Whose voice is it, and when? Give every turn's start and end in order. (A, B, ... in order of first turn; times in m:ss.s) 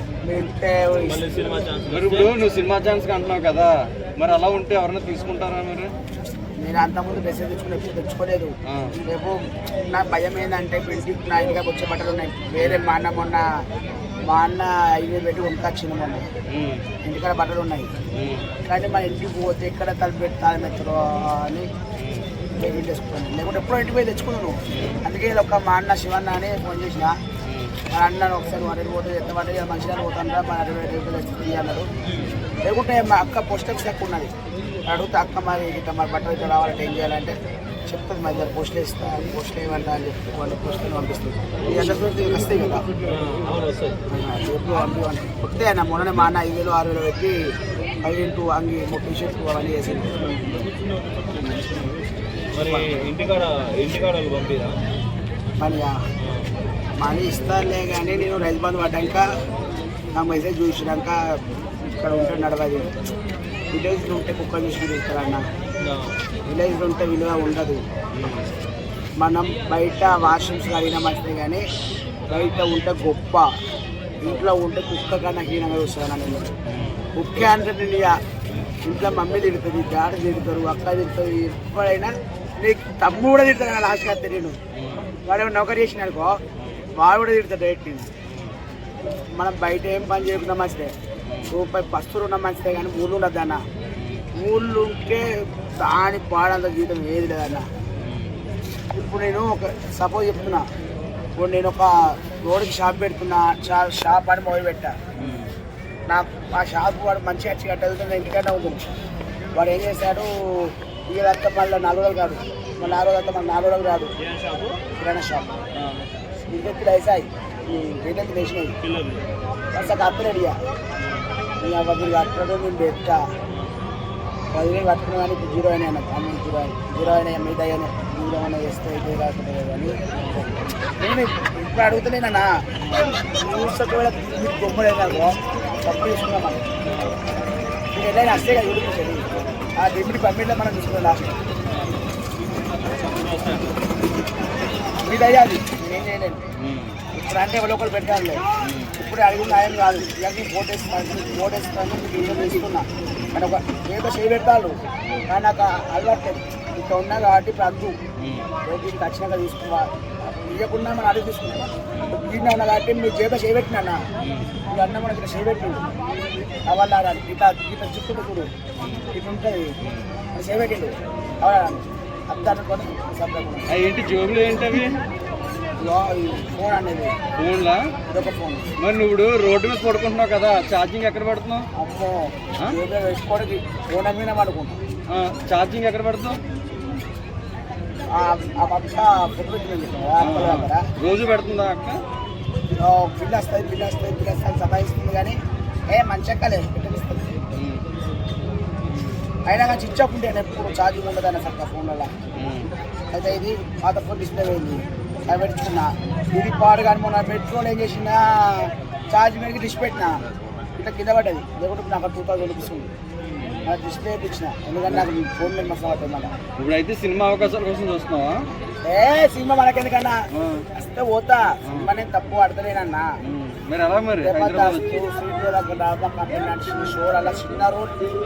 0:00.2-0:01.2 A
0:01.1-0:02.3 B
0:01.9-0:05.9 C
0:06.6-0:13.4 A
0:08.7-0:08.9 C
0:14.3-0:16.3 A
0:16.5-0:16.8 C
0:17.0-0:17.9 A
0:18.1-0:18.5 C
0:18.7-0:21.7 A
0:22.0-0:22.3 C
0:22.6-0:27.2 A
0:24.7-0:25.0 C
0:27.4-0:27.7 C
0:27.9-0:31.9 A
0:32.0-0:32.4 B
0:32.6-0:34.3 A
0:34.9-0:37.4 A
0:37.9-0:42.8 A
0:43.0-0:44.0 B
0:44.1-0:50.3 A
0:50.1-0:52.0 B
0:52.5-0:54.8 B
0:52.6-0:53.0 A
0:55.6-0:56.0 A
0:56.2-0:56.5 B
0:57.0-0:59.3 A
1:00.1-1:01.4 A
1:02.0-1:03.0 A
1:03.7-1:05.5 A
1:05.8-1:06.2 B
1:06.5-1:07.8 A
1:08.2-1:08.5 B
1:09.2-1:11.6 A
1:12.3-1:13.5 A
1:14.2-1:16.5 A
1:16.7-1:17.0 B
1:17.2-1:18.2 A
1:18.8-1:24.6 A
1:24.8-1:25.0 C
1:25.2-1:26.4 A
1:26.6-1:26.8 B
1:27.0-1:28.1 A
1:29.4-1:30.9 A
1:31.5-1:33.6 A
1:34.4-1:37.6 A
1:38.0-1:38.4 B
1:38.9-1:40.6 A
1:41.4-1:45.0 A
1:45.2-1:45.5 B
1:46.1-1:48.8 A
1:49.5-1:54.1 A
1:52.8-1:53.0 B
1:54.2-1:54.8 B
1:55.0-1:55.5 A
1:55.8-1:56.1 B
1:56.5-1:58.8 A
1:58.8-1:59.3 B
1:59.7-2:00.6 A
2:01.0-2:01.3 B
2:01.6-2:03.2 A
2:03.5-2:03.8 B
2:04.5-2:10.0 A
2:10.1-2:10.5 B
2:11.0-2:12.5 A
2:12.8-2:13.1 B
2:13.2-2:16.6 A
2:16.8-2:17.2 B
2:17.9-2:19.2 A
2:19.8-2:21.4 A
2:21.7-2:23.8 B
2:25.0-2:26.4 A
2:26.6-2:26.9 B
2:27.1-2:28.4 A
2:28.6-2:28.9 B
2:29.0-2:38.0 A
2:38.6-2:44.0 A
2:44.7-2:45.9 A
2:46.7-2:48.5 A
2:49.1-2:49.7 A
2:49.8-2:50.1 C
2:50.3-2:53.7 A
2:53.7-2:55.0 C
2:55.8-2:57.1 A
2:57.4-2:57.9 C
2:58.1-2:58.7 A
2:58.8-3:01.7 C
3:01.7-3:04.8 A
3:05.1-3:06.4 C
3:08.1-3:10.9 A
3:10.2-3:12.0 C
3:12.7-3:15.4 A
3:15.9-3:17.4 A
3:17.5-3:17.8 C
3:19.4-3:22.1 A
3:22.3-3:22.7 C
3:23.1-3:30.2 A
3:30.8-3:32.9 A
3:33.2-3:33.7 B
3:33.6-3:36.3 A
3:36.6-3:38.5 C
3:38.8-3:40.2 A
3:40.3-3:40.7 C
3:40.7-3:43.1 A
3:43.2-3:44.8 C
3:44.2-3:47.9 A